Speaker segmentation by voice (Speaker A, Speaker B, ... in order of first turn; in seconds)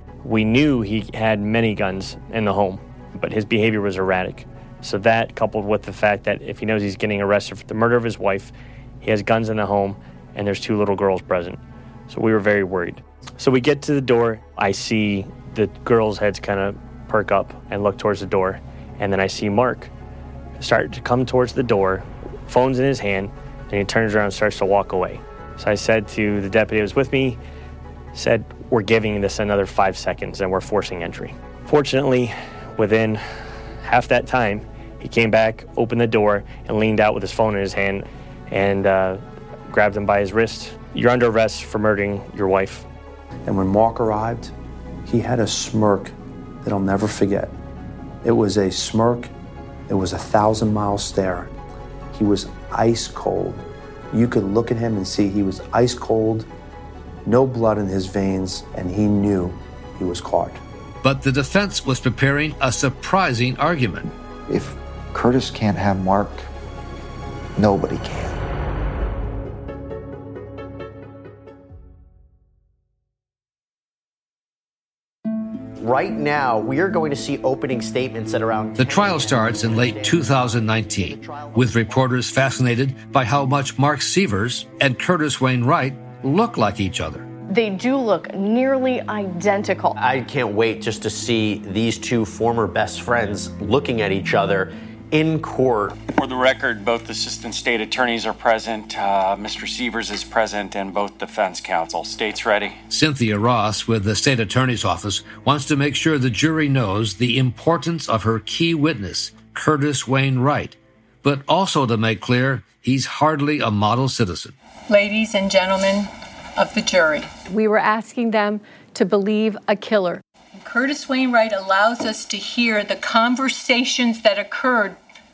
Speaker A: 0.2-11.6, 12.1-19.9, 20.6-27.4, 28.1-42.9
Speaker B: 43.5-44.5, 45.0-47.5, 48.2-49.3, 49.9-51.5, 52.1-56.5, 57.2-60.6
Speaker C: 61.0-64.1, 78.8-87.2, 102.9-114.5
Speaker D: 64.5-66.5, 67.5-68.4
Speaker E: 75.8-81.6, 90.0-95.9
Speaker F: 87.5-89.9
Speaker G: 96.1-102.8
Speaker H: 114.9-125.0